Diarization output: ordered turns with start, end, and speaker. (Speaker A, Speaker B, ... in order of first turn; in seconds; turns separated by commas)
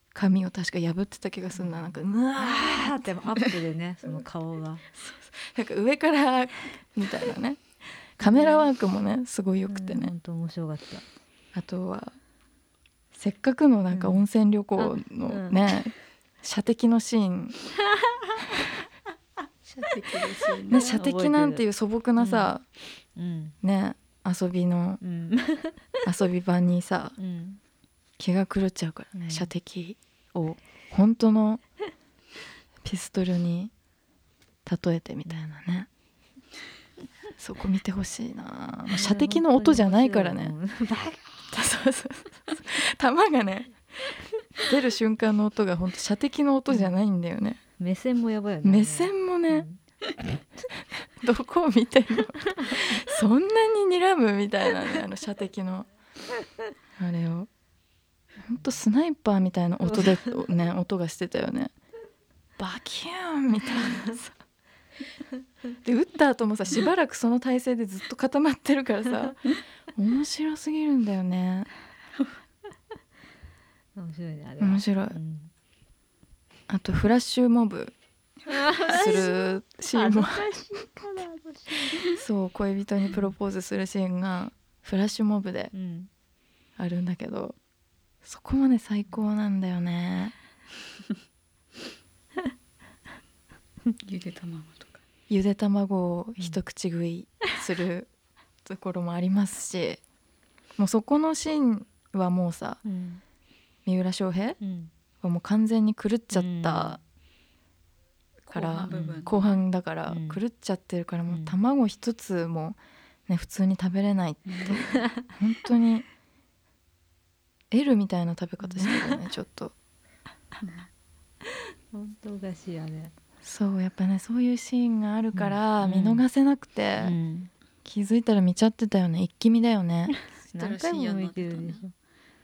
Speaker A: 0.1-3.1, Speaker B: 1.6-4.8, Speaker A: 4.9-7.6, Speaker A: 8.2-10.1, Speaker B: 8.2-8.6, Speaker B: 9.7-11.0, Speaker A: 11.5-12.2, Speaker A: 13.1-17.6, Speaker B: 13.9-14.2, Speaker B: 14.8-15.6, Speaker B: 17.9-18.7, Speaker C: 19.6-20.9, Speaker B: 20.7-21.6, Speaker A: 20.7-22.6, Speaker B: 22.2-22.5, Speaker B: 23.1-23.5, Speaker A: 23.6-25.0, Speaker B: 25.0-26.1, Speaker A: 26.0-27.2, Speaker B: 27.2-27.6, Speaker A: 28.2-31.6, Speaker B: 29.1-29.5, Speaker A: 32.8-33.7, Speaker A: 34.6-35.9, Speaker A: 37.4-40.5, Speaker B: 38.9-41.3, Speaker A: 41.5-47.6, Speaker B: 47.8-49.8, Speaker A: 48.6-49.7, Speaker A: 51.2-55.9, Speaker B: 52.4-52.8, Speaker A: 57.0-57.5, Speaker A: 58.5-61.7, Speaker B: 59.8-60.4, Speaker A: 62.6-64.3, Speaker B: 63.7-64.1, Speaker A: 65.8-71.7, Speaker B: 74.0-75.5, Speaker A: 74.6-75.2, Speaker A: 76.7-77.9, Speaker B: 78.5-82.0, Speaker A: 78.9-80.6, Speaker A: 82.0-85.7, Speaker B: 85.7-86.1, Speaker A: 86.8-87.5, Speaker A: 88.2-90.3, Speaker C: 94.0-95.0, Speaker A: 95.3-98.1, Speaker A: 98.6-100.0, Speaker A: 100.8-102.8, Speaker B: 102.8-103.2, Speaker A: 103.8-104.6, Speaker B: 104.6-104.9, Speaker A: 105.2-107.0, Speaker B: 106.3-107.0, Speaker C: 108.4-109.6, Speaker A: 108.5-116.0, Speaker B: 108.9-109.2, Speaker B: 110.1-110.4, Speaker B: 111.3-111.5, Speaker C: 114.5-114.8, Speaker B: 114.8-115.3, Speaker A: 117.7-119.7, Speaker B: 118.7-119.2, Speaker C: 120.6-120.9, Speaker B: 121.4-123.1, Speaker A: 123.4-127.1, Speaker B: 125.3-126.2, Speaker B: 127.0-127.5, Speaker A: 127.8-130.1, Speaker C: 130.4-131.8, Speaker B: 130.5-131.9